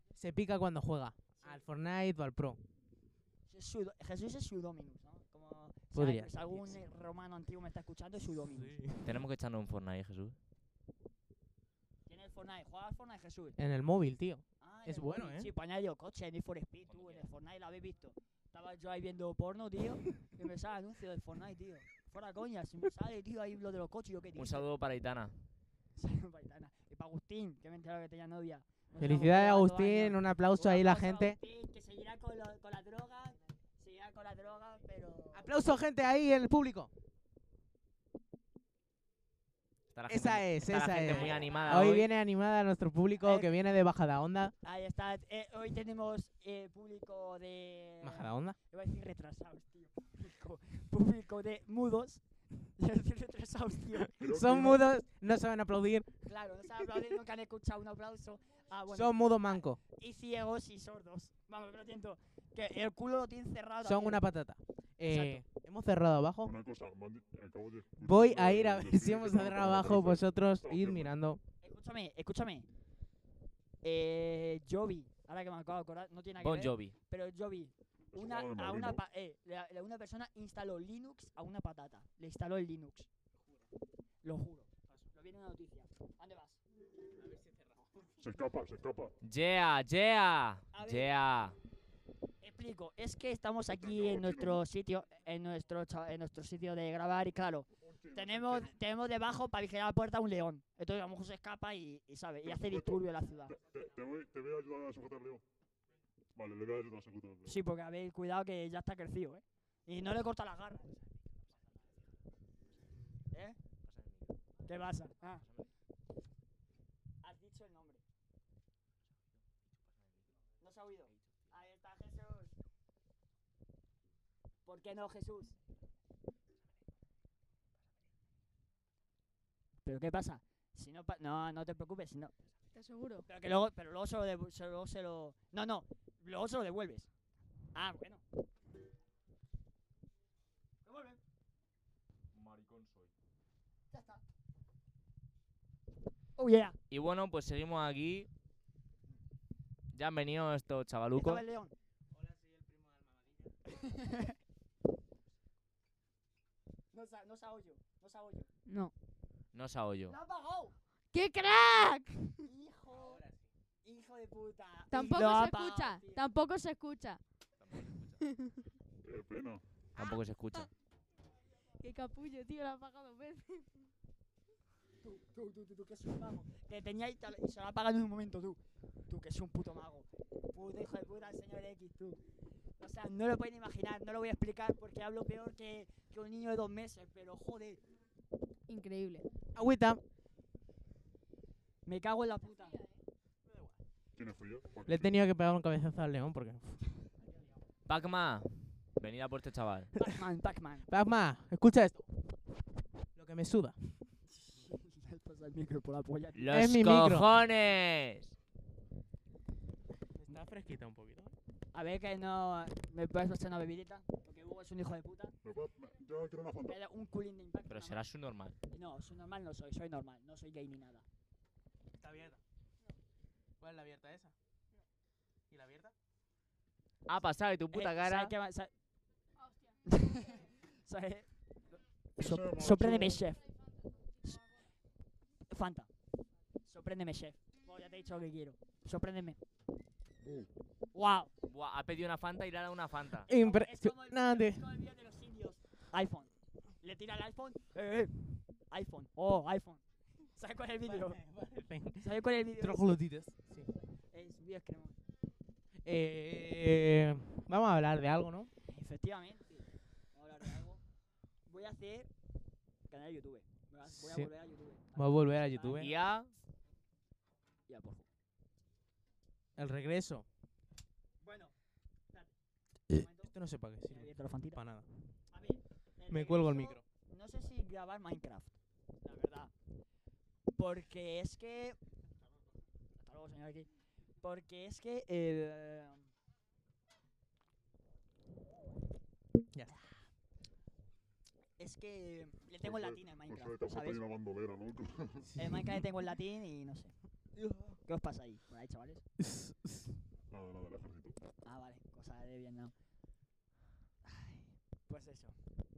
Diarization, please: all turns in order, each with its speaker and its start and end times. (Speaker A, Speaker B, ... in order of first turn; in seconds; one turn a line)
Speaker A: 0.2-2.6
Speaker B: 1.4-1.6
Speaker B: 3.5-8.8
Speaker A: 5.9-6.8
Speaker A: 8.5-9.1
Speaker C: 9.0-10.3
Speaker B: 12.1-13.6
Speaker A: 13.6-15.5
Speaker B: 14.6-24.7
Speaker C: 16.9-17.3
Speaker C: 24.4-25.4
Speaker B: 26.0-35.5
Speaker A: 29.0-31.4
Speaker A: 35.3-36.9
Speaker C: 39.9-42.1
Speaker A: 40.1-44.5
Speaker B: 41.0-42.0
Speaker B: 43.2-43.5
Speaker B: 44.6-54.1
Speaker A: 48.0-48.6
Speaker D: 54.2-54.8
Speaker A: 54.2-56.1
Speaker B: 56.3-64.3
Speaker A: 58.9-59.8
Speaker A: 63.8-66.5
Speaker B: 65.0-65.4
Speaker D: 66.4-71.1
Speaker A: 68.0-71.4
Speaker B: 71.6-72.7
Speaker B: 73.8-83.1
Speaker C: 76.4-77.0
Speaker D: 78.1-79.0
Speaker B: 84.2-86.6
Speaker A: 87.2-88.0
Speaker D: 88.2-89.1
Speaker C: 89.2-91.6
Speaker B: 90.7-91.1
Speaker B: 92.4-103.6
Speaker D: 93.8-94.6
Speaker D: 97.8-98.7
Speaker D: 102.5-105.4
Speaker D: 106.3-107.6
Speaker B: 107.5-110.9
Speaker B: 113.3-113.6
Speaker C: 113.8-114.4
Speaker B: 114.7-115.4
Speaker C: 115.4-115.7
Speaker B: 117.2-118.0
Speaker B: 120.6-122.5
Speaker B: 124.7-125.5
Speaker B: 129.8-132.3
Speaker E: 132.7-133.3
Speaker B: 133.3-137.1
Speaker B: 137.7-138.2
Speaker B: 140.8-141.2
Speaker C: 142.3-143.1
Speaker B: 143.9-144.2
Speaker B: 146.4-146.8
Speaker C: 146.9-148.3
Speaker C: 149.9-151.4
Speaker B: 151.2-151.8
Speaker A: 152.2-153.5
Speaker B: 153.7-154.3
Speaker B: 156.9-158.5
Speaker E: 158.7-158.9
Speaker C: 159.5-160.2
Speaker B: 160.1-160.7
Speaker E: 161.1-162.5
Speaker B: 162.4-163.2
Speaker A: 162.9-163.5
Speaker B: 163.8-166.2
Speaker E: 164.9-167.2
Speaker C: 167.6-168.2
Speaker E: 168.2-168.5
Speaker D: 169.0-169.6
Speaker C: 170.0-170.7
Speaker E: 170.0-170.6
Speaker E: 171.8-173.7
Speaker B: 175.0-182.2
Speaker B: 182.8-187.8
Speaker E: 188.7-189.3
Speaker A: 189.6-190.0
Speaker B: 191.8-192.8
Speaker D: 194.2-195.2
Speaker A: 194.9-196.8
Speaker C: 197.9-199.9
Speaker B: 200.0-200.9
Speaker A: 200.9-202.1
Speaker A: 203.2-203.8
Speaker B: 204.4-206.5
Speaker C: 206.4-208.3
Speaker A: 206.5-207.3
Speaker A: 210.2-211.4
Speaker B: 211.7-215.3
Speaker D: 215.4-216.8
Speaker B: 216.7-218.0
Speaker C: 217.7-218.6
Speaker B: 218.7-221.0
Speaker A: 222.0-222.4
Speaker A: 223.6-224.3
Speaker A: 225.5-225.9
Speaker C: 227.1-228.3
Speaker B: 227.7-228.7
Speaker B: 229.9-231.3
Speaker D: 232.2-233.2
Speaker B: 232.2-233.4
Speaker B: 235.5-235.9
Speaker B: 236.7-239.4
Speaker D: 240.2-240.5
Speaker B: 240.9-241.3
Speaker C: 241.5-243.3
Speaker A: 243.3-244.6
Speaker B: 243.3-248.1
Speaker B: 248.7-249.8
Speaker B: 250.3-251.2
Speaker A: 250.9-253.7
Speaker B: 252.0-253.0
Speaker B: 254.1-255.0
Speaker A: 255.8-258.5
Speaker B: 258.7-260.8
Speaker B: 261.5-262.1
Speaker B: 262.9-265.9
Speaker A: 263.9-264.3
Speaker A: 264.9-265.9
Speaker C: 265.8-266.3
Speaker B: 267.7-268.1
Speaker A: 269.6-270.2
Speaker B: 271.2-271.5
Speaker B: 272.9-273.3
Speaker A: 273.2-274.9
Speaker B: 273.9-274.6
Speaker B: 275.3-279.5
Speaker A: 276.1-276.8
Speaker B: 280.6-281.8
Speaker B: 283.0-283.7
Speaker B: 284.2-286.0
Speaker B: 291.6-294.0
Speaker D: 292.6-295.3
Speaker A: 295.2-295.8
Speaker B: 295.4-296.9
Speaker B: 297.7-299.0
Speaker A: 299.2-299.9
Speaker D: 300.3-301.2
Speaker B: 301.4-302.7
Speaker B: 304.0-305.4